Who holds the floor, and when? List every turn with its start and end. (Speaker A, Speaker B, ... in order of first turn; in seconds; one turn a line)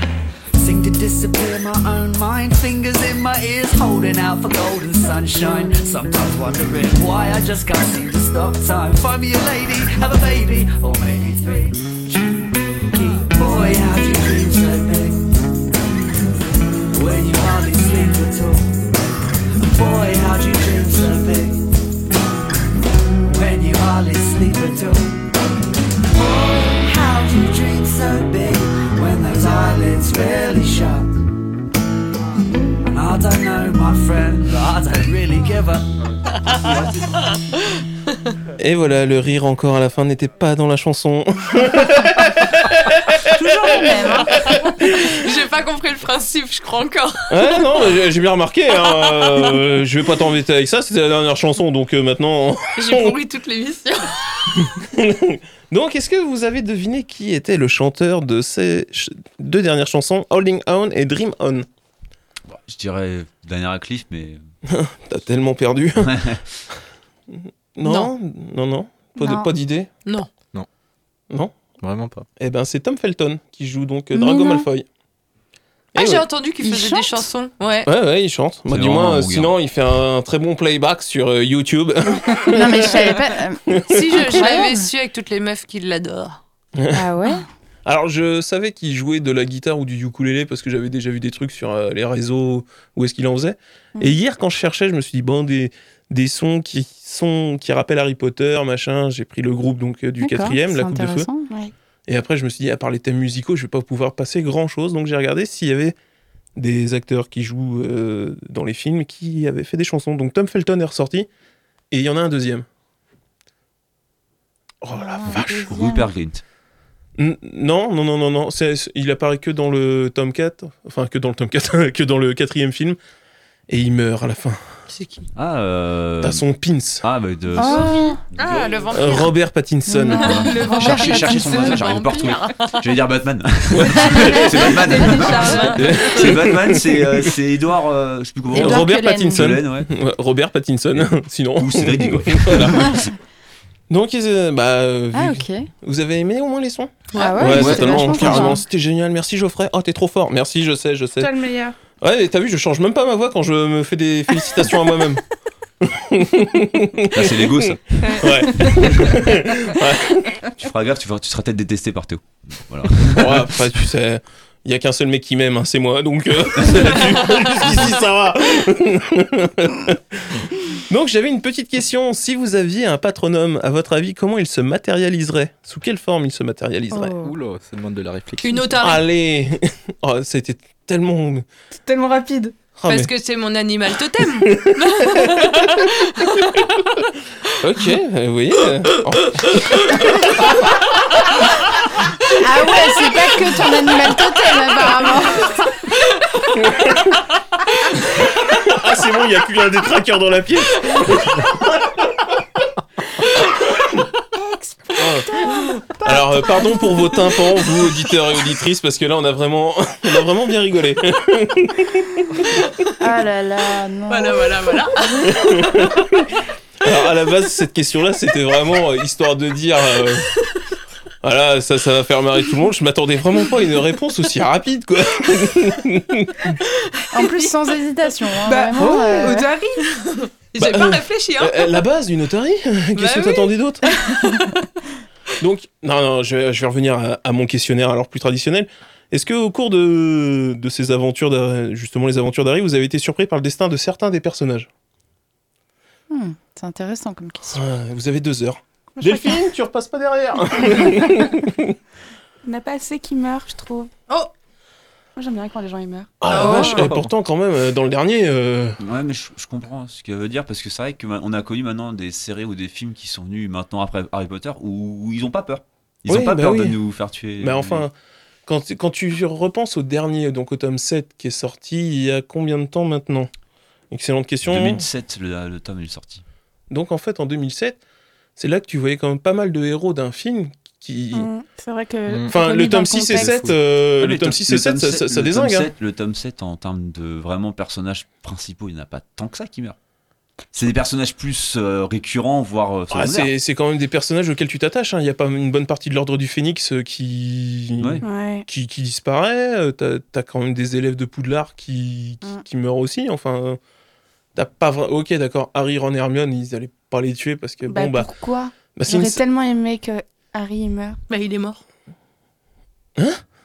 Speaker A: 0.5-15.3
Speaker A: 16.9-18.9
Speaker A: 19.6-21.7
Speaker A: 23.2-25.2
Speaker A: 26.1-31.1
Speaker A: 32.8-35.9
Speaker B: 38.6-45.2
Speaker C: 43.4-44.3
Speaker D: 43.6-44.3
Speaker E: 44.3-47.8
Speaker B: 47.3-53.2
Speaker E: 48.8-49.6
Speaker E: 52.8-54.7
Speaker B: 54.7-61.6
Speaker F: 62.5-64.4
Speaker B: 64.7-66.2
Speaker F: 66.0-66.4
Speaker B: 67.3-69.9
Speaker C: 69.2-69.5
Speaker G: 71.8-72.2
Speaker B: 72.4-74.8
Speaker C: 74.1-74.6
Speaker E: 75.9-77.9
Speaker B: 76.0-76.2
Speaker C: 76.6-77.2
Speaker B: 77.8-84.1
Speaker F: 78.7-79.5
Speaker C: 82.5-84.9
Speaker E: 83.9-86.4
Speaker B: 86.8-87.0
Speaker C: 86.9-87.4
Speaker B: 87.8-101.3
Speaker C: 100.2-101.5
Speaker B: 102.1-106.0
Speaker B: 106.5-111.3
Speaker B: 111.9-112.7
Speaker B: 114.8-115.7
Speaker D: 115.0-116.0
Speaker F: 115.5-116.4
Speaker B: 117.2-123.0
Speaker B: 123.7-124.6
Speaker E: 124.9-125.3
Speaker F: 125.3-126.4
Speaker B: 126.2-127.0
Speaker F: 127.0-129.2
Speaker C: 127.6-128.1
Speaker E: 127.6-129.3
Speaker D: 127.6-128.1
Speaker B: 128.9-130.5
Speaker D: 130.0-132.3
Speaker F: 130.1-139.9
Speaker E: 130.1-132.8
Speaker C: 130.7-131.7
Speaker B: 133.7-134.1
Speaker D: 134.0-136.1
Speaker E: 134.0-136.4
Speaker B: 135.8-137.3
Speaker B: 138.5-143.0
Speaker C: 138.6-139.4
Speaker F: 140.9-143.1
Speaker B: 143.9-151.3
Speaker C: 145.1-145.7
Speaker E: 147.1-147.8
Speaker C: 147.1-148.6
Speaker F: 147.5-148.4
Speaker D: 151.2-151.8
Speaker B: 152.0-155.2
Speaker B: 155.8-160.4
Speaker F: 157.1-157.9
Speaker D: 158.0-158.9
Speaker F: 158.7-159.2
Speaker F: 160.6-163.7
Speaker B: 163.1-177.2
Speaker F: 166.6-167.1
Speaker C: 176.9-177.3
Speaker G: 177.2-178.7
Speaker E: 178.4-179.0
Speaker B: 178.8-181.4
Speaker D: 181.8-182.5
Speaker B: 182.8-183.1
Speaker E: 182.9-186.7
Speaker B: 184.4-187.0
Speaker B: 187.6-190.8
Speaker C: 192.3-195.6
Speaker B: 196.5-197.2
Speaker B: 197.9-201.9
Speaker B: 204.9-205.3
Speaker B: 205.9-212.6
Speaker C: 213.0-215.4
Speaker E: 214.1-215.1
Speaker B: 215.2-216.3
Speaker B: 216.8-220.3
Speaker B: 221.2-226.6
Speaker C: 227.1-229.5
Speaker D: 228.4-229.9
Speaker B: 228.8-229.2
Speaker E: 229.9-231.8
Speaker B: 230.6-233.9
Speaker E: 232.9-234.6
Speaker B: 235.4-244.7
Speaker C: 246.1-247.6
Speaker B: 247.5-251.7
Speaker D: 249.0-249.4
Speaker D: 250.7-251.0
Speaker D: 252.4-253.9
Speaker D: 255.2-256.5
Speaker B: 256.2-258.8
Speaker E: 256.3-256.9
Speaker G: 256.3-257.1
Speaker F: 258.8-267.9
Speaker B: 266.1-266.8
Speaker B: 267.4-267.9
Speaker B: 268.5-273.3
Speaker B: 273.9-274.8
Speaker F: 274.4-276.2
Speaker B: 276.7-277.8
Speaker B: 278.4-281.3
Speaker D: 281.1-283.3
Speaker G: 282.1-282.4
Speaker B: 282.3-285.7
Speaker G: 283.1-283.5
Speaker F: 284.0-289.8
Speaker F: 290.5-293.3
Speaker B: 292.9-303.6
Speaker F: 297.8-298.0
Speaker D: 298.0-298.4
Speaker B: 304.4-308.1
Speaker D: 307.6-311.0
Speaker B: 308.7-309.2
Speaker E: 311.1-311.6